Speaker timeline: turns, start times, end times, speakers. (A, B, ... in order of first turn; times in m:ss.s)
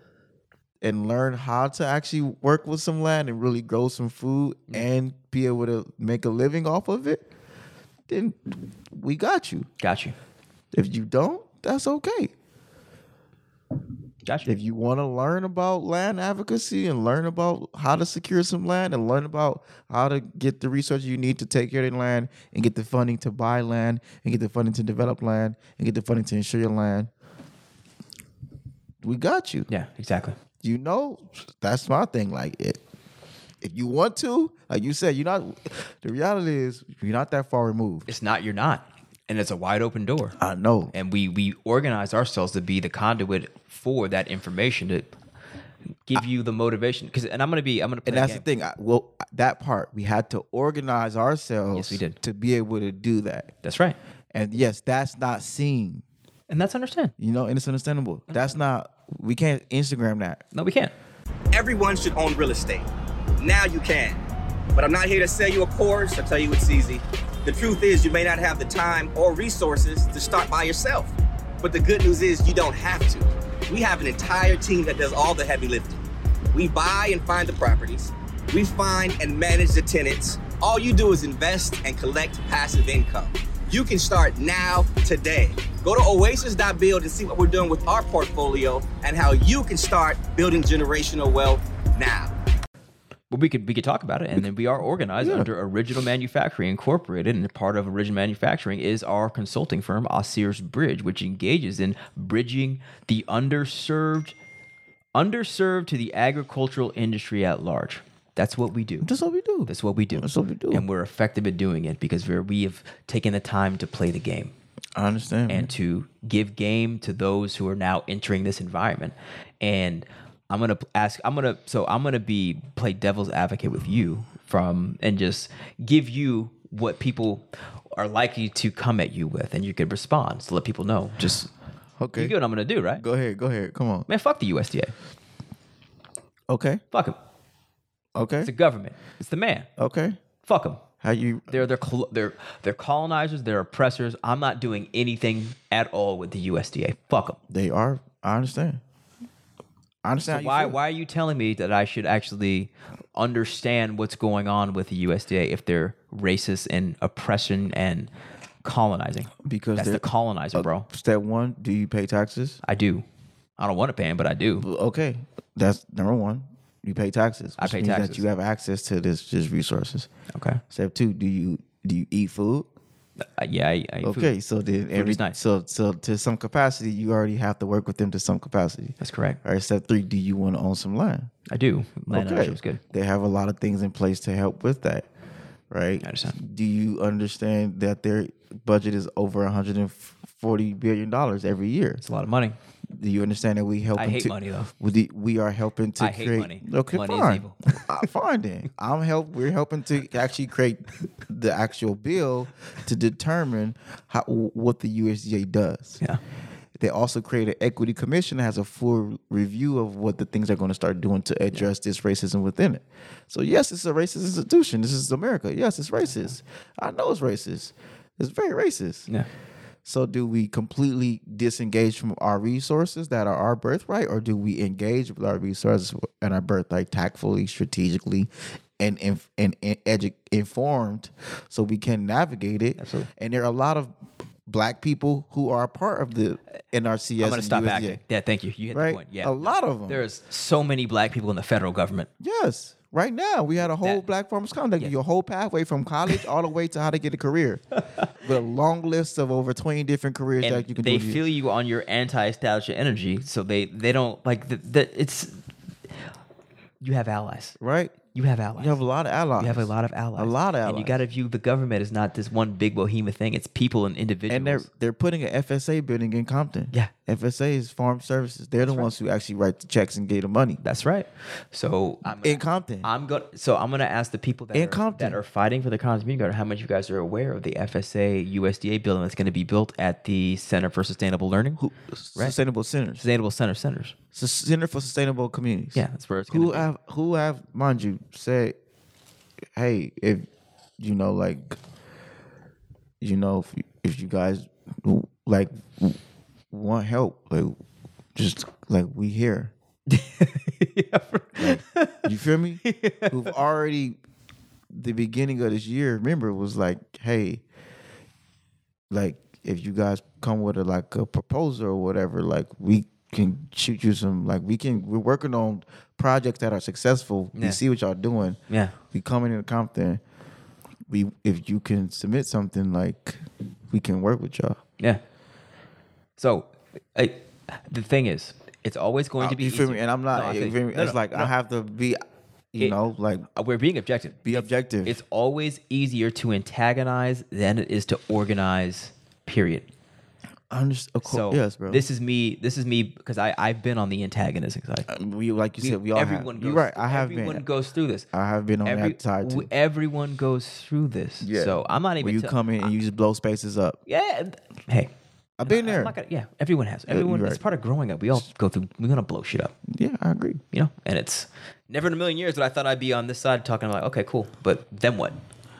0:00.8-0:07.3 A
0:08.1-0:09.7 A
0:09.8-0:10.2 B
0:10.7-0:12.3 A
0:14.3-0:14.5 B
0:14.4-0:27.1 A
0:29.0-0:29.7 A
0:29.7-0:30.4 B
0:30.6-0:32.8 A
0:33.6-0:38.1 A
0:38.1-0:40.4 B
0:40.4-0:40.9 A
0:40.9-0:45.1 B
0:46.1-0:48.4 B
0:48.1-0:53.5 A
0:51.7-0:52.2 B
0:53.6-0:54.0 B
0:54.3-0:56.0 A
0:56.5-0:57.1 B
0:57.2-1:00.4 A
1:00.5-1:00.9 B
1:01.5-1:02.9 C
1:03.4-1:04.2 C
1:04.8-1:16.0 C
1:16.5-1:32.3 C
1:33.3-1:44.4 B
1:35.2-1:35.5 A
1:45.2-1:49.1 B
1:49.0-1:50.8 A
1:49.7-1:54.5 B
1:55.0-1:55.7 A
1:55.5-2:11.5 B
2:12.0-2:12.4 A
2:12.1-2:13.0 B
2:13.0-2:14.1 A
2:14.1-2:15.0 B
2:16.5-2:16.8 A
2:16.9-2:17.2 B
2:18.2-2:18.5 A
2:18.4-2:19.7 B
2:19.8-2:20.2 A
2:20.4-2:20.8 B
2:21.0-2:21.6 A
2:21.5-2:27.4 B
2:27.5-2:28.8 A
2:30.0-2:30.8 A
2:30.2-2:38.1 B
2:38.6-2:40.9 B
2:39.4-2:42.6 A
2:42.6-2:43.0 B
2:43.6-2:44.7 B
2:44.6-2:50.1 A
2:47.6-2:48.2 B
2:50.3-2:50.6 B
2:50.7-2:52.7 A
2:53.2-2:54.3 B
2:54.0-3:01.3 A
2:54.9-2:55.4 B
2:59.0-2:59.4 B
3:01.5-3:02.8 B
3:02.1-3:05.1 A
3:05.7-3:12.0 A
3:06.0-3:06.4 B
3:12.0-3:12.6 B
3:12.9-3:26.0 A
3:14.0-3:14.7 B
3:16.0-3:17.8 B
3:26.8-3:39.1 A
3:39.8-3:53.9 A
3:52.8-3:53.1 B
3:54.5-3:58.0 A
3:57.2-4:02.1 B
3:58.7-4:00.0 A
4:02.2-4:07.6 A
4:08.2-4:11.2 A
4:10.4-4:15.4 B
4:16.8-4:17.6 B
4:17.6-4:18.0 A
4:18.1-4:18.8 B
4:18.6-4:21.0 A
4:19.4-4:24.7 B
4:24.3-4:30.6 A
4:28.6-4:28.9 B
4:30.6-4:41.6 B
4:32.0-4:32.9 A
4:34.5-4:35.2 A
4:41.6-4:43.0 A
4:43.0-4:44.0 B
4:44.1-4:48.6 A
4:45.8-4:46.7 B
4:49.6-4:50.3 A
4:50.8-4:51.6 A
4:53.0-4:56.0 A
4:56.5-4:57.6 A
4:58.2-4:59.5 A
4:59.9-5:02.1 B
5:01.4-5:04.0 A
5:02.6-5:03.3 B
5:04.7-5:07.4 A
5:08.9-5:18.4 A
5:17.4-5:17.6 B
5:18.5-5:18.8 B
5:18.9-5:20.0 A
5:20.9-5:24.6 A
5:26.2-5:31.3 B
5:29.2-5:32.0 A
5:32.5-5:33.2 A
5:33.3-5:39.7 B
5:34.2-5:35.0 A
5:40.5-5:41.8 A
5:41.0-5:44.9 B
5:44.9-5:47.4 A
5:45.6-5:48.1 B
5:48.1-5:49.5 A
5:48.6-5:52.4 B
5:51.2-5:53.8 A
5:53.9-5:54.9 B
5:55.4-5:56.0 A
5:55.4-5:59.5 B
5:56.9-5:57.4 A
5:59.7-6:00.4 A
6:00.5-6:05.2 B